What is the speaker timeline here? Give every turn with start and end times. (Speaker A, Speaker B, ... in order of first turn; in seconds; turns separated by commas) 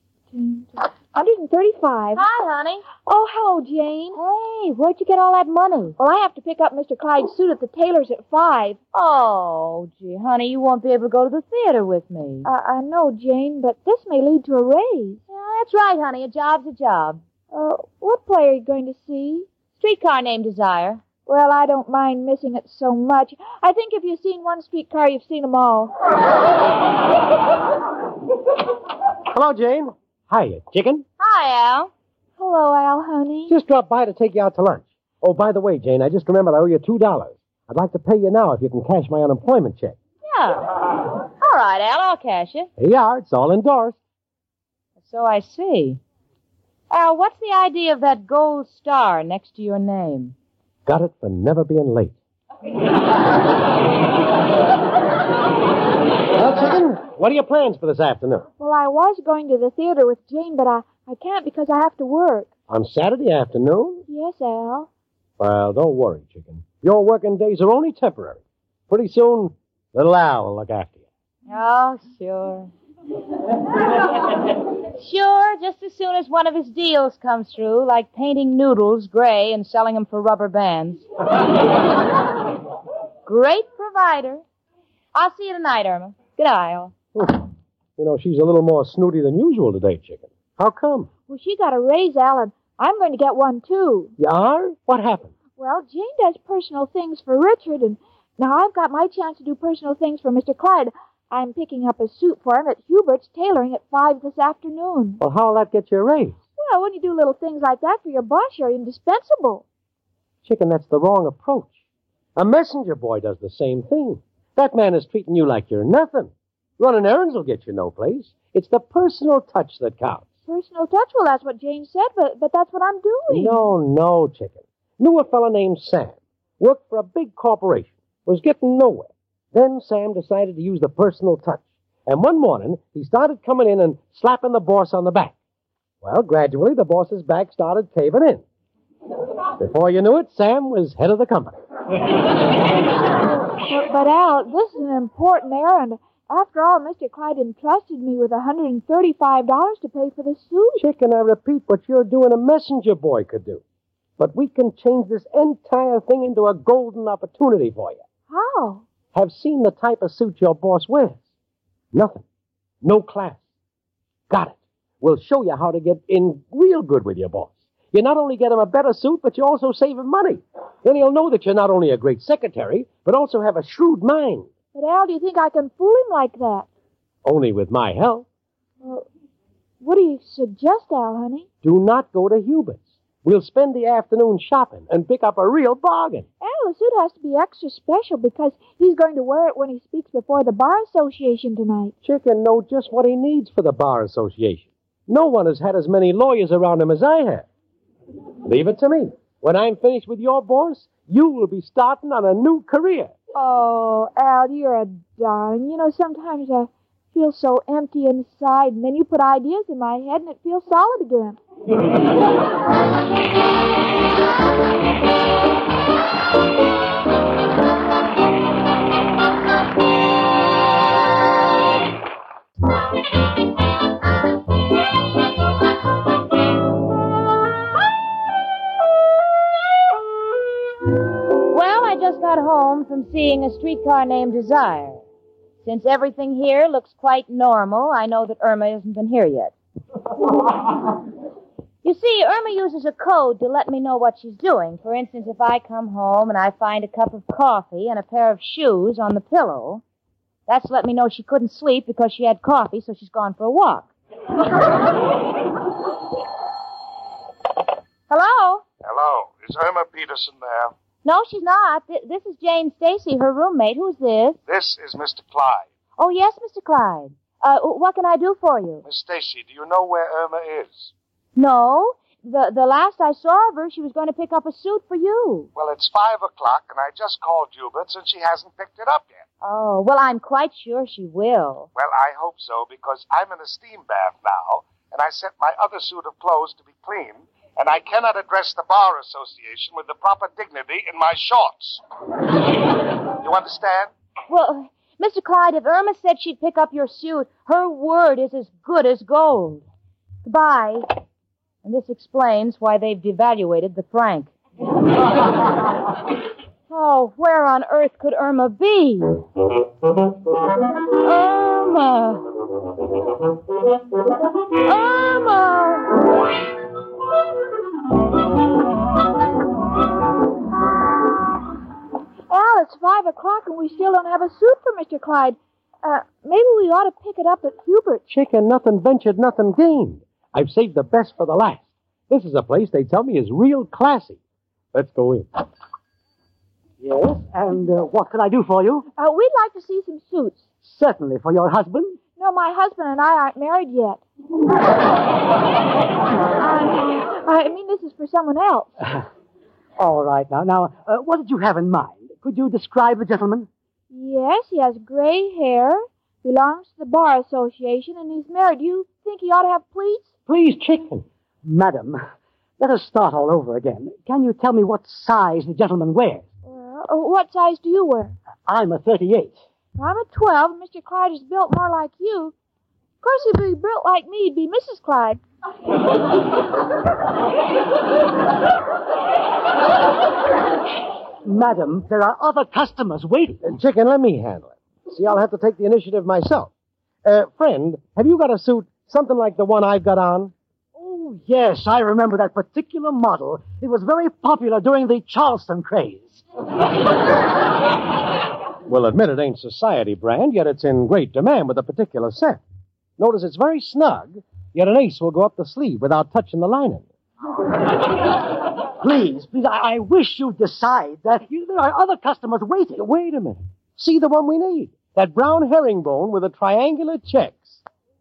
Speaker A: 0.3-2.2, Speaker B: 2.1-2.9, Speaker A: 3.0-4.2, Speaker B: 4.1-6.0, Speaker A: 6.0-8.8, Speaker B: 8.9-12.5, Speaker A: 12.4-15.2, Speaker B: 15.3-17.2, Speaker A: 17.5-19.5, Speaker B: 19.8-21.0, Speaker A: 21.2-25.9, Speaker C: 29.3-31.0, Speaker B: 31.2-31.9, Speaker A: 32.4-33.5, Speaker C: 33.5-40.0, Speaker B: 40.2-40.8, Speaker B: 41.4-42.7, Speaker C: 42.8-44.0, Speaker B: 45.0-46.0, Speaker B: 46.9-50.3, Speaker C: 50.9-52.1, Speaker C: 56.3-58.5, Speaker A: 58.6-62.5, Speaker C: 62.7-64.0, Speaker A: 64.1-64.9, Speaker C: 65.4-71.0, Speaker B: 71.5-72.7, Speaker B: 74.9-81.1, Speaker B: 83.2-84.4, Speaker B: 85.1-87.0, Speaker C: 87.1-91.1, Speaker A: 91.3-94.1, Speaker C: 94.2-95.3, Speaker A: 95.5-105.2, Speaker C: 105.2-106.4, Speaker A: 106.6-109.6, Speaker C: 110.4-111.7, Speaker C: 112.3-120.3, Speaker A: 120.5-123.6, Speaker C: 123.3-135.3, Speaker C: 136.0-138.4, Speaker C: 139.6-141.6, Speaker A: 143.5-150.8, Speaker C: 150.8-153.6, Speaker C: 154.2-158.0, Speaker A: 158.3-158.8, Speaker C: 159.1-161.2, Speaker C: 161.9-162.2, Speaker C: 162.8-163.4, Speaker C: 164.3-174.5, Speaker A: 174.7-176.7, Speaker C: 177.2-178.3, Speaker A: 179.8-181.5, Speaker C: 181.6-186.3, Speaker A: 186.4-191.9, Speaker C: 192.0-197.5, Speaker C: 198.4-203.1, Speaker A: 203.3-211.4, Speaker B: 231.5-235.0, Speaker B: 235.6-239.5, Speaker B: 241.8-249.8, Speaker B: 250.5-253.9, Speaker B: 258.1-258.6, Speaker D: 258.8-260.7, Speaker B: 261.0-264.4, Speaker D: 264.5-265.7, Speaker B: 266.0-268.8, Speaker D: 268.8-270.9, Speaker B: 271.4-275.5, Speaker D: 275.5-279.2, Speaker B: 279.4-281.7, Speaker D: 281.7-291.8, Speaker D: 293.2-293.9, Speaker B: 294.3-299.6, Speaker B: 300.2-301.0, Speaker B: 301.6-304.3, Speaker B: 306.7-309.2, Speaker B: 311.0-312.3, Speaker B: 314.5-316.1, Speaker A: 322.3-328.0, Speaker C: 328.1-334.2, Speaker C: 334.7-335.3, Speaker E: 336.8-338.9, Speaker A: 339.0-340.5, Speaker E: 340.6-342.0, Speaker A: 342.1-344.0, Speaker A: 346.4-348.7, Speaker E: 349.8-353.5, Speaker A: 353.9-360.1, Speaker C: 360.2-361.1, Speaker E: 361.4-362.0, Speaker E: 362.6-366.3, Speaker A: 366.4-368.1, Speaker E: 368.4-369.4, Speaker A: 369.8-372.3, Speaker A: 373.0-375.2, Speaker E: 381.2-383.6, Speaker C: 383.4-386.5, Speaker C: 387.0-390.3, Speaker E: 390.8-396.2, Speaker C: 398.7-402.4, Speaker C: 403.0-406.9, Speaker E: 408.8-412.9, Speaker C: 412.8-417.6